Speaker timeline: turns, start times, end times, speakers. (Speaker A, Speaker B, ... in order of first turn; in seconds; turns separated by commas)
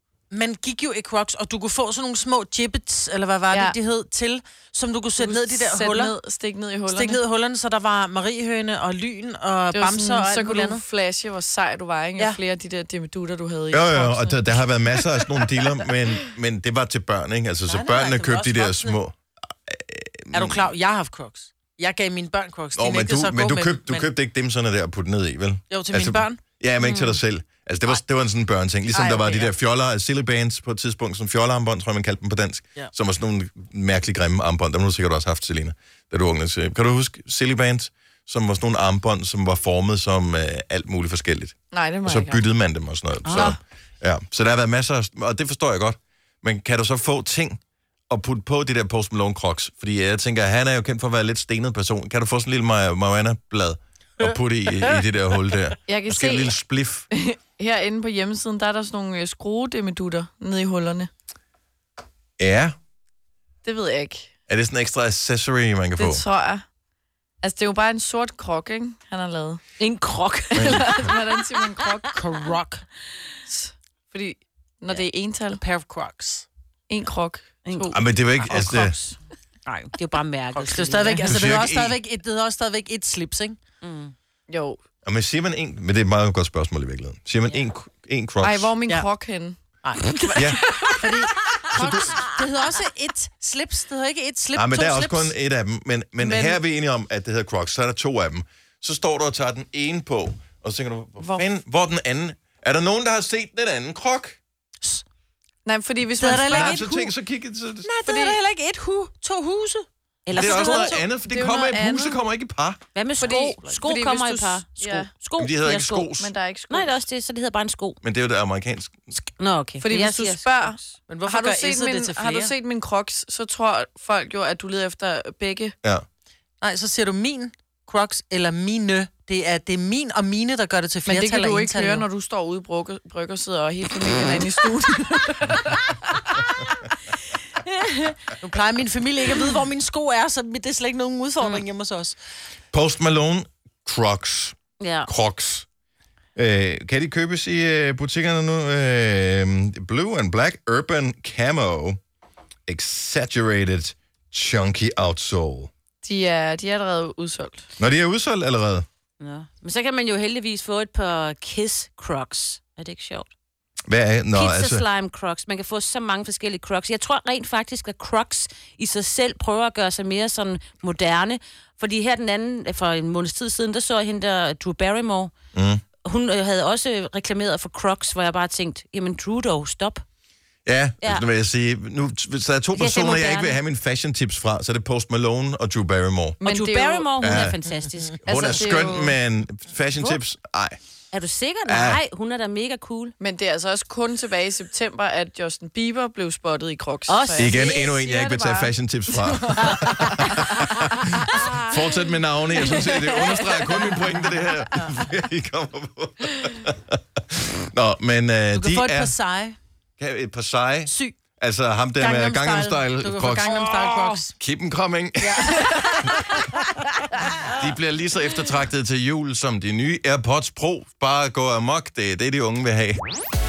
Speaker A: 0.3-6.2, Speaker B: 3.5-3.8, Speaker B: 5.2-7.2, Speaker A: 6.9-10.8, Speaker B: 9.7-14.6, Speaker C: 13.7-20.7, Speaker A: 17.7-19.0, Speaker A: 20.3-24.1, Speaker C: 22.8-57.1, Speaker A: 25.7-26.4, Speaker D: 26.8-27.2, Speaker B: 28.9-29.5, Speaker B: 41.7-42.4, Speaker D: 43.2-43.6, Speaker B: 55.9-56.6, Speaker B: 57.1-61.1, Speaker C: 62.4-62.8, Speaker B: 63.6-64.3, Speaker C: 64.5-66.2, Speaker B: 66.0-66.7, Speaker B: 67.4-69.6, Speaker D: 69.8-71.2, Speaker B: 70.5-72.2, Speaker C: 70.5-71.0, Speaker A: 72.1-72.9, Speaker B: 73.5-75.6, Speaker A: 75.6-76.5, Speaker B: 76.9-78.0, Speaker D: 77.7-79.2, Speaker C: 77.9-79.0, Speaker D: 79.9-81.3, Speaker A: 80.5-83.6, Speaker C: 81.2-82.0, Speaker D: 83.8-84.1, Speaker B: 84.5-84.8, Speaker C: 85.0-88.7, Speaker B: 88.4-89.6, Speaker A: 89.8-95.3, Speaker B: 90.2-91.0, Speaker C: 90.3-90.6, Speaker C: 91.7-92.1, Speaker C: 94.5-104.4, Speaker B: 96.2-96.6, Speaker B: 105.7-106.9, Speaker A: 106.2-107.1, Speaker C: 106.2-107.9, Speaker A: 107.8-111.0, Speaker B: 108.1-108.4, Speaker D: 110.3-111.0, Speaker C: 110.3-112.8, Speaker B: 111.0-112.2, Speaker D: 113.0-118.0, Speaker B: 113.2-115.1, Speaker A: 113.2-113.8, Speaker C: 115.4-116.3, Speaker B: 116.2-117.0, Speaker C: 118.0-119.2, Speaker D: 119.4-120.9, Speaker B: 119.8-125.8, Speaker A: 121.1-122.5, Speaker A: 126.6-132.1, Speaker B: 131.1-136.4, Speaker A: 138.4-142.2, Speaker C: 142.7-145.7, Speaker D: 144.8-145.1, Speaker C: 146.4-152.0, Speaker C: 152.7-155.7, Speaker B: 156.0-157.7, Speaker C: 157.8-158.9, Speaker D: 159.2-163.3, Speaker C: 163.9-164.9, Speaker D: 164.3-175.3, Speaker C: 175.5-175.8, Speaker D: 176.0-180.0, Speaker C: 180.7-186.4, Speaker D: 182.7-183.6, Speaker B: 186.4-187.1, Speaker D: 186.4-188.6, Speaker C: 187.2-187.6, Speaker C: 188.2-190.8, Speaker B: 188.2-189.2, Speaker D: 191.1-193.2, Speaker C: 191.7-192.0, Speaker B: 193.2-200.7, Speaker D: 197.1-197.7, Speaker C: 197.3-209.1, Speaker B: 202.8-204.0, Speaker A: 208.5-209.6, Speaker C: 210.0-216.1, Speaker A: 210.9-211.2, Speaker A: 212.0-214.3, Speaker A: 215.2-216.5, Speaker C: 217.4-223.0